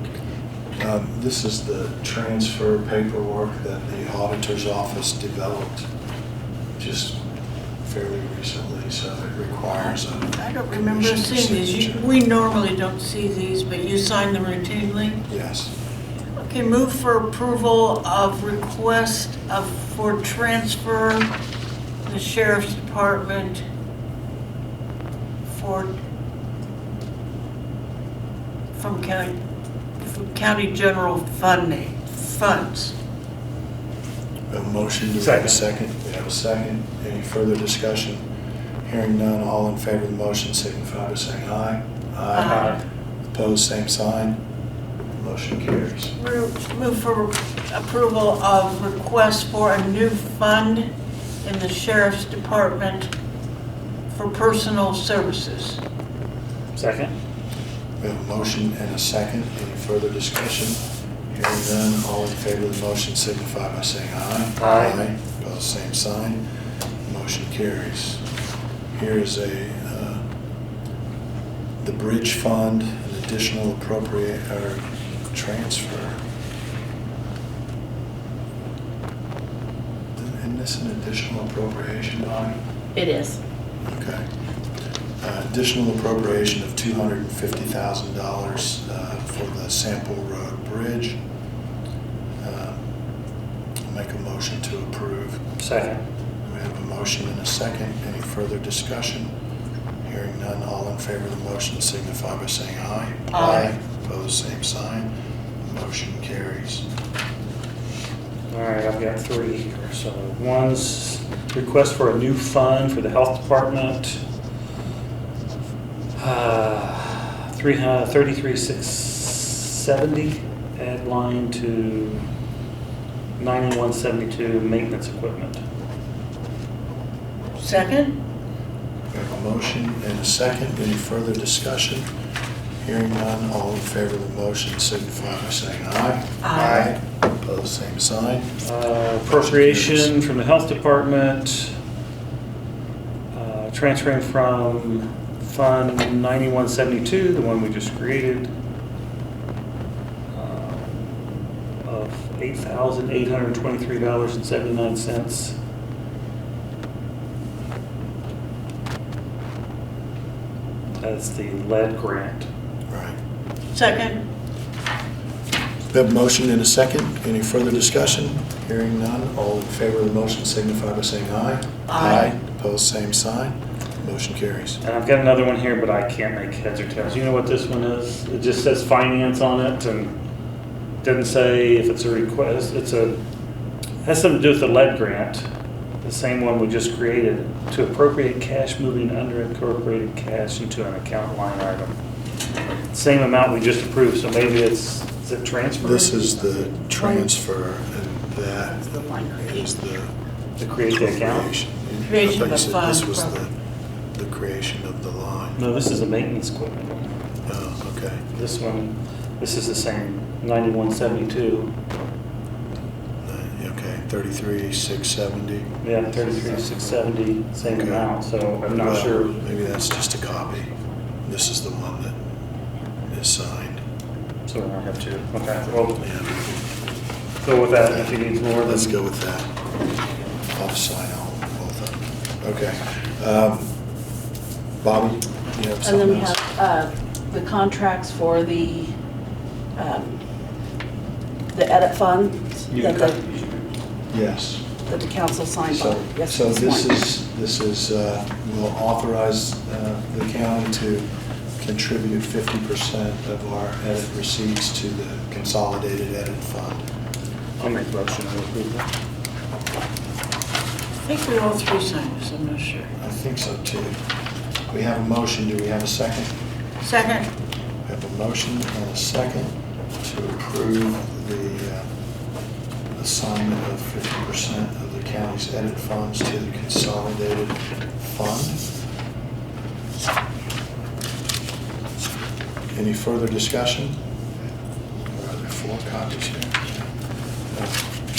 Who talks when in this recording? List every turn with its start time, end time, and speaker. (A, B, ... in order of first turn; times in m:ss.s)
0:00.8-0:05.9 A
0:06.8-0:07.2 A
0:07.8-0:12.1 A
0:09.8-0:15.2 B
0:15.3-0:15.7 A
0:16.4-0:21.3 B
0:22.0-0:23.6 B
0:25.4-0:25.9 B
0:28.8-0:29.4 B
0:30.0-0:32.9 B
0:34.5-0:38.2 A
0:35.2-0:35.6 C
0:38.8-0:42.8 A
0:42.3-0:42.8 B
0:42.5-0:42.7 C
0:43.3-0:44.4 A
0:45.2-0:46.1 A
0:46.2-0:50.9 B
0:51.4-0:53.1 B
0:54.1-0:55.8 B
0:56.7-0:57.1 C
0:58.0-1:00.8 A
1:01.3-1:06.4 A
1:04.6-1:05.0 C
1:07.0-1:08.2 A
1:08.9-1:10.2 A
1:11.8-1:16.2 A
1:20.1-1:22.6 A
1:22.9-1:23.4 D
1:23.9-1:24.2 A
1:25.2-1:31.2 A
1:32.4-1:32.8 A
1:33.8-1:35.4 A
1:35.6-1:36.0 C
1:36.4-1:39.3 A
1:40.0-1:45.1 A
1:43.3-1:43.7 B
1:45.6-1:46.8 A
1:48.5-1:54.2 C
1:56.2-2:02.2 C
2:03.4-2:05.6 C
2:07.6-2:08.2 B
2:09.1-2:12.1 A
2:12.8-2:18.6 A
2:16.4-2:16.9 B
2:18.6-2:21.7 C
2:19.2-2:20.1 A
2:23.3-2:28.5 C
2:30.3-2:31.1 C
2:31.8-2:35.6 C
2:41.0-2:42.5 C
2:42.9-2:43.2 A
2:43.7-2:44.3 B
2:45.9-2:54.8 A
2:51.9-2:52.3 B
2:54.8-3:00.2 C
3:01.0-3:03.2 C
3:04.0-3:05.5 C
3:06.0-3:11.9 C
3:12.9-3:16.7 C
3:15.8-3:18.8 A
3:16.9-3:17.3 D
3:18.7-3:19.7 D
3:19.4-3:20.1 A
3:20.6-3:21.5 C
3:20.9-3:23.5 A
3:22.0-3:23.4 B
3:24.1-3:25.6 A
3:25.6-3:27.1 C
3:27.5-3:28.2 A
3:28.3-3:31.7 C
3:33.2-3:35.9 A
3:35.8-3:39.4 C
3:37.6-3:38.1 A
3:38.8-3:40.7 A
3:41.2-3:42.1 A
3:43.1-3:43.8 A
3:44.5-3:46.0 C
3:46.0-3:46.6 A
3:47.4-3:48.9 C
3:47.8-3:49.5 A
3:50.5-3:53.7 A
3:54.8-3:56.4 A
3:55.8-3:58.9 D
3:59.8-4:00.2 D
4:01.5-4:03.2 D
4:02.7-4:03.7 C
4:04.1-4:04.6 A
4:04.8-4:07.0 D
4:05.7-4:11.1 A
4:11.6-4:16.8 A
4:17.6-4:18.9 C
4:21.0-4:22.9 B
4:23.0-4:23.9 A
4:24.7-4:26.3 A
4:26.8-4:27.3 B
4:27.8-4:31.9 A
4:32.9-4:38.6 A
4:42.7-4:44.0 A
4:45.1-4:46.7 A
4:47.5-4:47.8 A